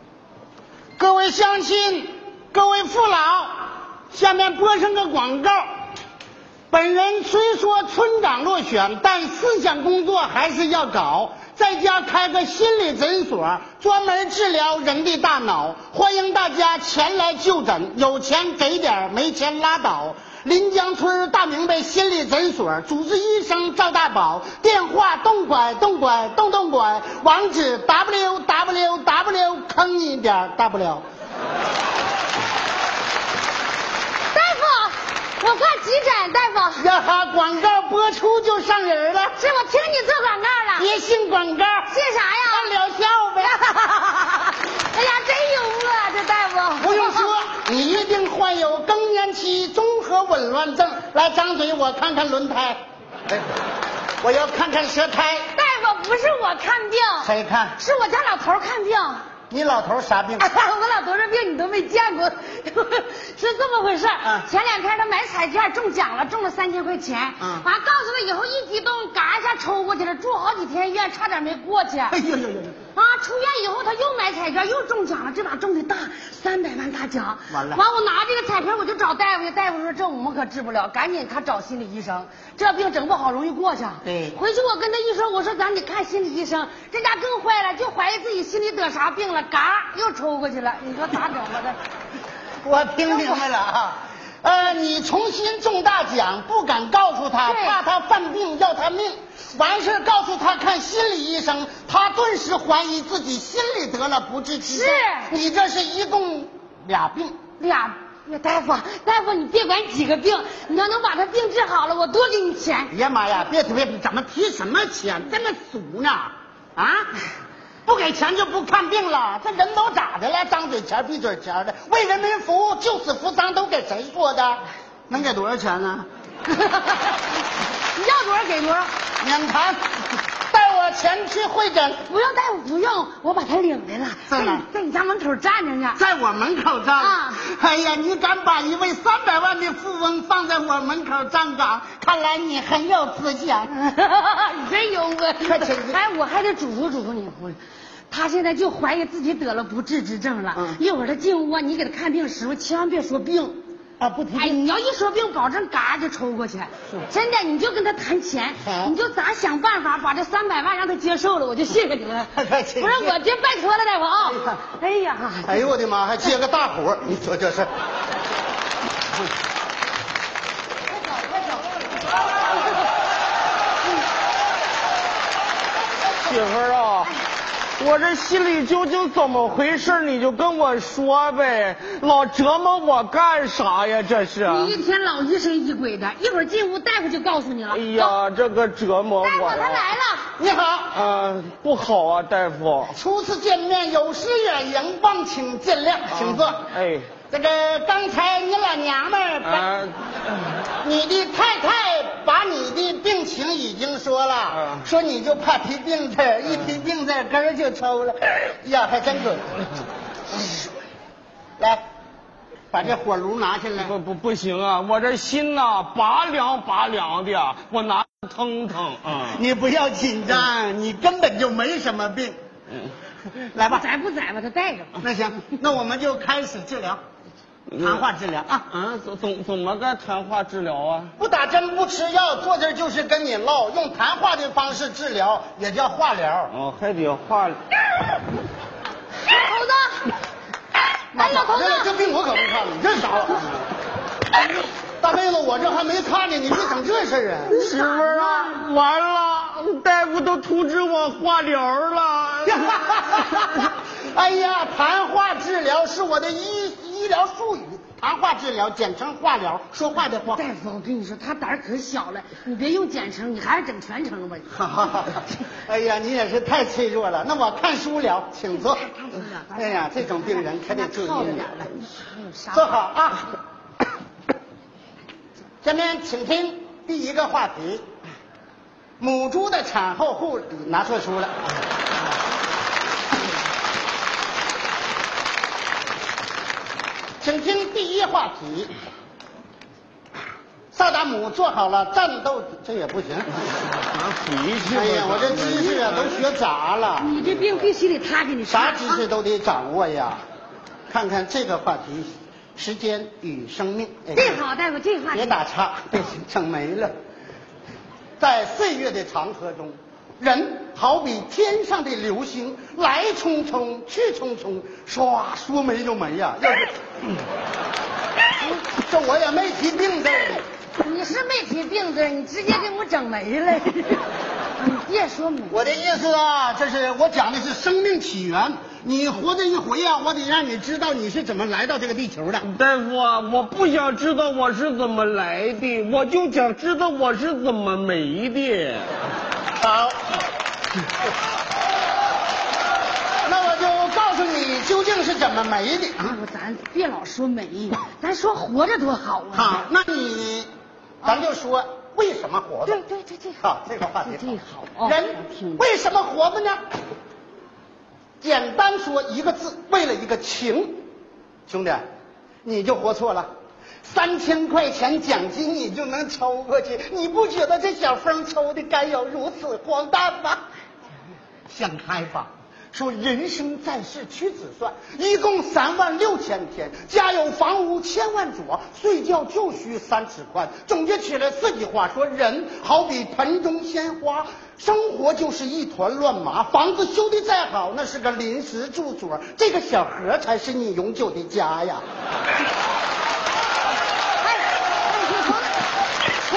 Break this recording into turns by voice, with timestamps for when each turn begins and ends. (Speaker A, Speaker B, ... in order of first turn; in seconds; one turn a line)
Speaker A: 1.0-5.7
Speaker A: 6.7-31.0
Speaker B: 34.3-36.9
Speaker A: 36.8-39.3
Speaker B: 39.4-40.9
Speaker A: 40.8-41.9
Speaker B: 41.9-42.7
Speaker A: 42.5-43.6
Speaker B: 43.6-47.3
Speaker A: 46.8-53.5
Speaker A: 54.2-55.5
Speaker B: 55.5-59.2
Speaker A: 57.2-57.8
Speaker A: 59.5-60.5
Speaker B: 60.4-72.2
Speaker A: 67.4-67.6
Speaker A: 72.1-72.8
Speaker B: 72.9-91.8
Speaker A: 77.5-77.8
Speaker A: 84.0-84.4
Speaker A: 92.6-107.3
Speaker B: 93.0-93.4
Speaker B: 97.4-97.8
Speaker B: 104.6-105.4
Speaker B: 107.6-112.9
Speaker A: 112.9-117.1
Speaker A: 117.8-126.1
Speaker B: 126.5-128.9
Speaker A: 129.2-132.0
Speaker B: 132.1-136.0
Speaker A: 134.3-134.7
Speaker A: 135.9-143.7
Speaker B: 136.9-137.4
Speaker B: 143.7-153.6
Speaker A: 145.4-146.0
Speaker A: 150.5-150.8
Speaker A: 154.0-154.6
Speaker B: 154.3-165.6
Speaker A: 158.6-158.9
Speaker A: 162.3-163.2
Speaker A: 164.2-164.6
Speaker A: 165.4-167.7
Speaker B: 170.9-172.8
Speaker C: 176.2-177.1
Speaker C: 177.8-184.8
Speaker B: 184.4-188.2
Speaker C: 187.7-189.8
Speaker B: 189.2-190.3
Speaker A: 190.3-190.9
Speaker C: 190.9-192.9
Speaker A: 192.9-196.7
Speaker C: 196.1-197.1
Speaker A: 197.3-199.7
Speaker C: 199.4-200.7
Speaker A: 200.8-209.8
Speaker C: 204.5-204.9
Speaker A: 211.6-211.8
Speaker A: 212.7-213.9
Speaker C: 213.8-219.4
Speaker A: 219.2-222.4
Speaker A: 223.5-223.8
Speaker B: 223.6-225.0
Speaker A: 225.0-227.0
Speaker C: 227.7-228.0
Speaker A: 227.8-228.7
Speaker C: 228.7-231.1
Speaker A: 231.2-236.5
Speaker C: 236.5-237.8
Speaker B: 239.2-240.1
Speaker A: 241.1-243.7
Speaker B: 241.1-241.9
Speaker A: 245.0-247.6
Speaker C: 247.5-253.7
Speaker B: 247.5-248.6
Speaker A: 252.4-260.4
Speaker B: 260.3-264.5
Speaker A: 264.5-268.8
Speaker B: 268.5-272.7
Speaker A: 269.5-271.7
Speaker A: 272.5-273.3
Speaker A: 275.6-277.8
Speaker A: 279.0-281.5
Speaker A: 287.2-288.7
Speaker A: 290.7-293.3
Speaker C: 293.7-296.2
Speaker A: 294.6-297.2
Speaker B: 297.0-299.0
Speaker A: 298.5-300.2
Speaker A: 300.9-304.4
Speaker B: 304.1-305.4
Speaker A: 305.1-306.9
Speaker A: 308.2-316.7
Speaker A: 318.6-320.4
Speaker B: 320.8-325.7
Speaker A: 325.5-332.5
Speaker C: 332.4-338.9
Speaker A: 339.6-340.0
Speaker A: 343.2-346.2
Speaker B: 346.0-349.6
Speaker A: 349.3-350.5
Speaker A: 351.0-352.8
Speaker B: 352.6-353.4
Speaker A: 353.4-356.6
Speaker B: 354.0-355.6
Speaker A: 358.2-360.8
Speaker A: 361.5-361.8
Speaker A: 362.4-363.3
Speaker A: 363.8-370.4
Speaker A: 371.5-391.8
Speaker B: 394.2-395.5